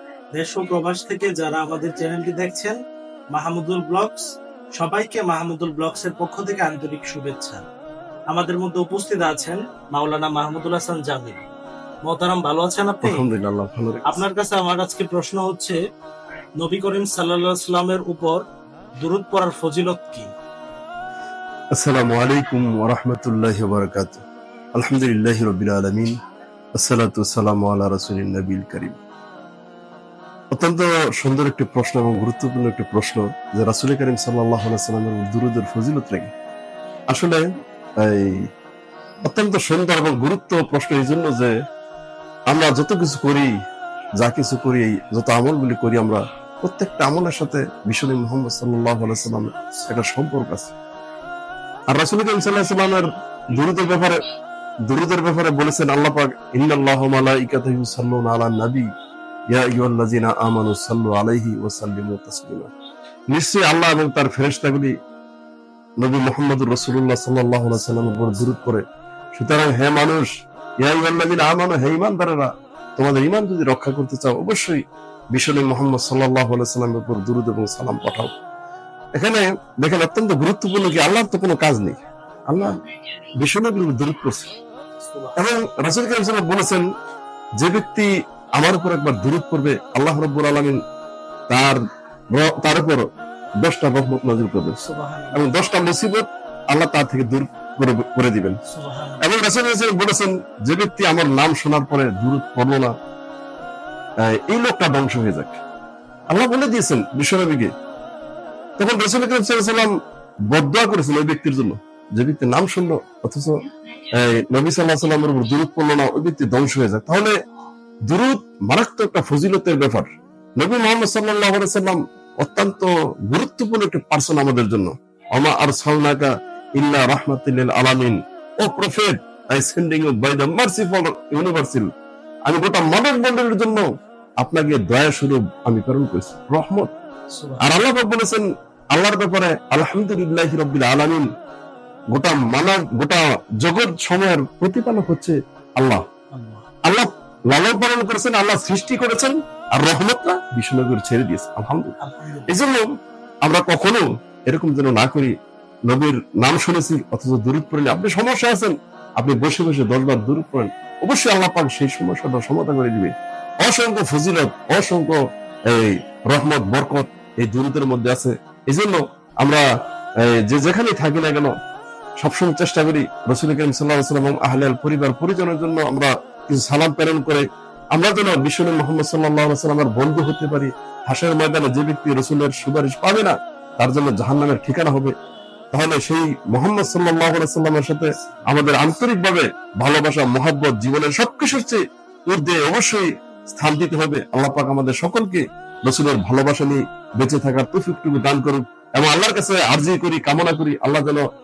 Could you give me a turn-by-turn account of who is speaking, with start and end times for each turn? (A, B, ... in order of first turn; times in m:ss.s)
0:00.4-0:02.8 A
0:03.3-0:07.6 A
0:08.3-0:11.4 A
0:12.1-0:13.2 A
0:13.0-0:14.2 B
0:14.1-0:15.8 A
0:16.6-0:18.4 A
0:19.0-0:20.3 A
0:21.8-0:24.2 B
0:24.8-0:26.1 B
0:26.8-0:29.0 B
0:30.5-0:36.3 B
0:37.1-0:37.4 B
0:38.0-0:38.5 B
0:39.3-0:41.5 B
0:42.5-0:43.5 B
0:44.2-0:50.8 B
0:51.9-0:54.2 B
0:54.9-0:58.9 B
0:59.5-1:02.7 B
1:03.3-1:04.9 B
1:06.0-1:08.8 B
1:09.4-1:14.8 B
1:15.3-1:18.3 B
1:19.2-1:22.0 B
1:22.5-1:22.8 B
1:23.4-1:24.5 B
1:25.0-1:25.4 A
1:25.4-1:26.9 B
1:27.6-1:30.8 B
1:31.5-1:31.8 B
1:32.3-1:33.1 B
1:33.6-1:34.8 B
1:34.8-1:35.5 A
1:35.3-1:38.6 B
1:38.7-1:39.3 A
1:39.2-1:42.9 B
1:44.2-1:45.6 B
1:46.3-1:47.7 B
1:48.8-1:49.9 B
1:50.5-1:53.6 B
1:54.2-1:57.3 B
1:58.1-2:00.1 B
2:00.6-2:11.9 B
2:12.5-2:13.9 B
2:14.4-2:16.9 B
2:17.4-2:17.6 A
2:17.6-2:21.3 B
2:22.1-2:26.0 B
2:26.3-2:26.6 A
2:26.9-2:32.0 B
2:32.0-2:32.5 A
2:32.5-2:32.9 B
2:33.4-2:35.3 B
2:35.9-2:49.6 B
2:50.2-2:51.5 B
2:52.2-3:05.2 B
3:05.7-3:21.2 B